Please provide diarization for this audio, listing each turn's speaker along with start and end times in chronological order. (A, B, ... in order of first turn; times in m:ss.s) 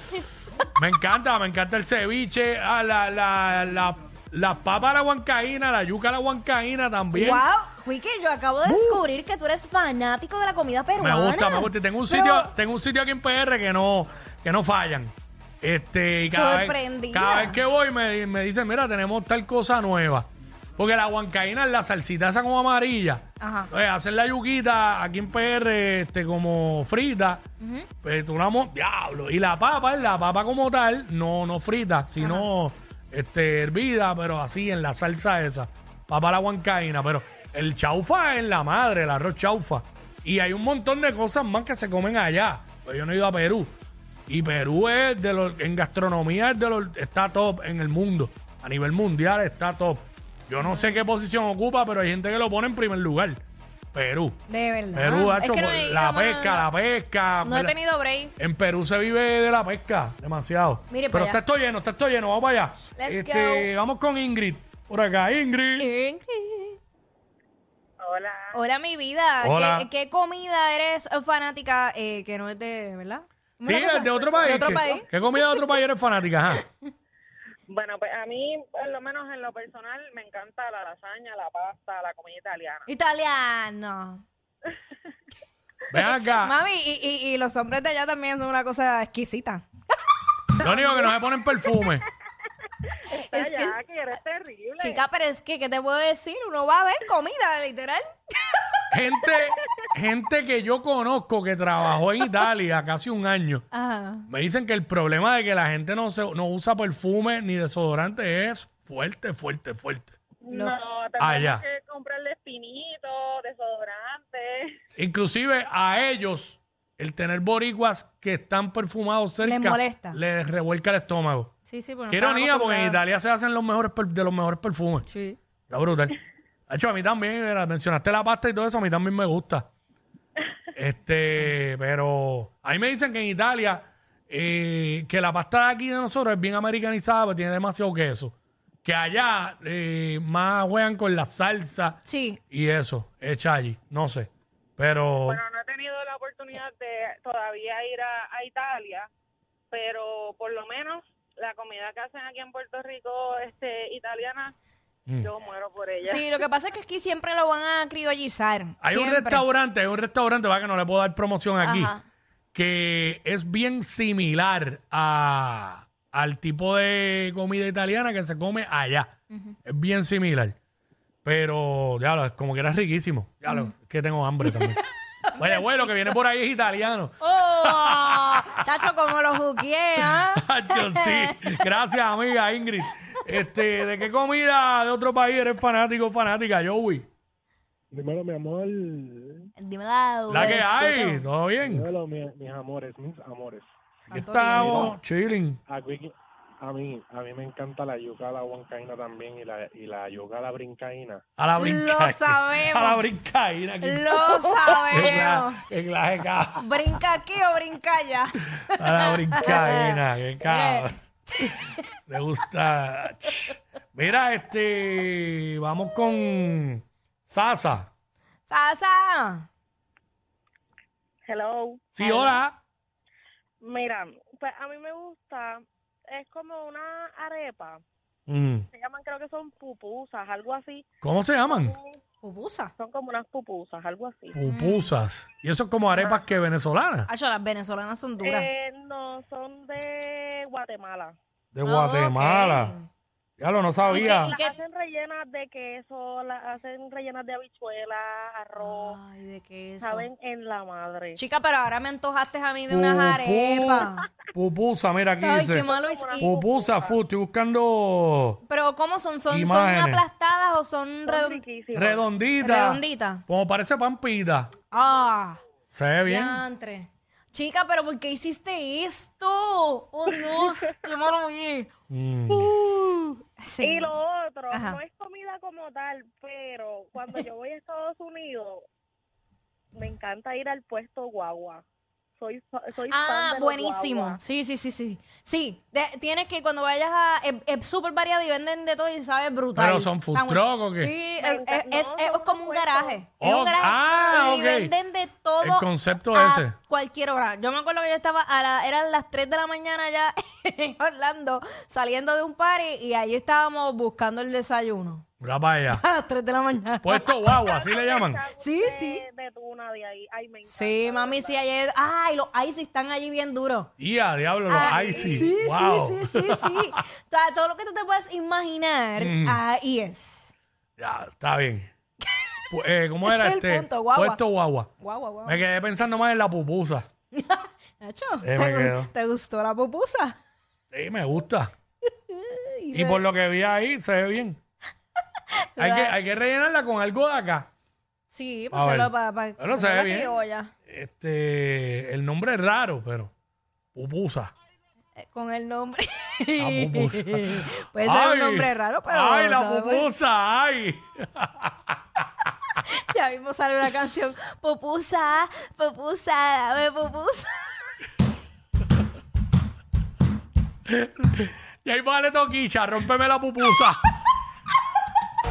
0:00.7-0:07.4 A
0:07.1-0:12.5 B
0:08.6-0:09.0 A
0:11.0-0:27.4 A
0:16.2-0:17.6 B
0:23.4-0:23.7 B
0:27.6-0:27.9 B
0:28.0-0:43.7 A
0:32.2-0:32.5 B
0:44.3-0:53.4 A
0:50.6-0:51.0 B
0:53.9-0:54.4 A
0:54.5-0:56.7 B
0:54.9-0:57.8 A
0:57.4-0:58.3 B
0:58.4-1:05.9 A
1:00.9-1:01.4 B
1:03.0-1:03.7 B
1:05.8-1:06.8 B
1:08.0-1:08.6 C
1:08.5-1:15.6 B
1:09.4-1:09.9 A
1:13.6-1:16.7 A
1:17.7-1:22.8 C
1:22.9-1:24.2 B
1:25.9-1:26.5 A
1:25.9-1:29.6 B
1:30.6-1:32.0 A
1:30.6-1:31.1 C
1:33.1-1:35.0 C
1:33.3-1:33.8 B
1:34.8-1:38.1 B
1:38.9-1:43.6 A
1:43.7-1:44.3 B
1:44.3-1:50.2 A
1:50.4-1:54.7 C
1:50.5-1:50.7 B
1:51.2-1:51.6 A
1:55.0-2:01.5 A
1:59.4-2:00.2 B
2:01.7-2:03.0 B
2:02.1-2:05.1 A
2:05.1-2:05.4 B
2:05.7-2:06.2 A
2:06.7-2:09.7 A
2:10.7-2:22.0 A
2:22.0-2:22.4 B
2:22.5-2:25.4 A
2:25.2-2:29.1 C
2:29.7-2:34.5 C
2:35.2-2:36.3 C
2:36.0-2:39.4 B
2:38.8-2:41.9 A
2:41.6-2:42.0 B
2:42.5-2:49.1 A
2:49.6-2:50.5 A
2:51.2-2:54.8 A
2:54.4-2:54.8 B
2:55.3-2:58.6 A
2:57.2-3:01.3 B
3:00.0-3:07.1 A
3:07.9-3:09.5 D
3:09.6-3:11.3 B
3:10.3-3:11.9 A
3:11.6-3:13.7 D
3:14.1-3:15.0 B
3:14.1-3:15.6 A
3:15.7-3:21.2 D
3:21.4-3:27.0 A
3:21.6-3:25.7 B
3:26.6-3:31.8 B
3:28.6-3:31.5 A
3:32.1-3:37.9 A
3:38.5-3:39.5 B
3:41.2-3:41.8 C
3:41.9-3:42.6 A
3:42.0-3:42.4 B
3:43.6-3:47.8 C
3:48.3-3:48.6 A
3:48.7-3:50.8 C
3:51.0-3:51.7 A
3:51.4-3:52.0 C
3:52.2-3:52.7 B
3:52.8-3:54.4 C
3:54.3-3:57.1 A
3:54.4-3:54.9 B
3:55.9-3:56.2 C
3:57.1-3:58.5 B
3:58.2-4:01.1 C
4:01.5-4:02.7 A
4:01.6-4:02.9 B
4:03.4-4:04.3 A
4:03.9-4:09.0 C
4:03.9-4:04.5 B
4:08.6-4:10.1 B
4:09.8-4:11.2 C
4:11.1-4:14.0 B
4:12.7-4:18.4 A
4:15.2-4:16.3 B
4:15.6-4:17.0 C
4:18.5-4:21.4 B
4:19.3-4:20.0 A
4:21.1-4:22.0 C
4:21.7-4:24.5 A
4:22.4-4:23.2 B
4:24.7-4:25.4 B
4:25.7-4:26.4 A
4:26.0-4:31.7 B
4:31.9-4:32.5 A
4:32.3-4:33.9 B
4:33.6-4:38.6 C
4:34.5-4:34.8 B
4:39.7-4:41.6 C
4:42.2-4:44.2 C
4:42.9-5:05.0 B
4:49.6-4:50.9 A
4:51.2-4:53.0 C
4:53.1-4:54.7 A
4:55.4-4:56.6 A
5:05.2-5:05.8 A
5:05.7-5:07.2 B
5:06.8-5:08.2 A
5:07.1-5:11.4 C
5:08.4-5:09.0 B
5:10.4-5:13.7 B
5:13.8-5:16.8 A
5:14.5-5:20.3 B
5:14.7-5:15.2 C
5:19.0-5:19.4 A
5:20.8-5:21.7 A
5:22.5-5:24.7 A
5:23.0-5:24.2 B
5:24.8-5:25.4 B
5:25.2-5:26.8 A
5:27.1-5:30.2 B
5:28.2-5:28.9 A
5:30.7-5:31.5 A
5:32.1-5:33.0 B
5:32.7-5:34.4 A
5:35.6-5:36.0 B
5:35.6-5:37.5 A
5:38.1-5:40.5 B
5:38.5-5:43.1 A
5:43.7-5:44.3 A
5:45.0-5:49.9 B
5:46.4-5:51.8 A
5:52.6-5:57.7 B
6:00.7-6:03.8 A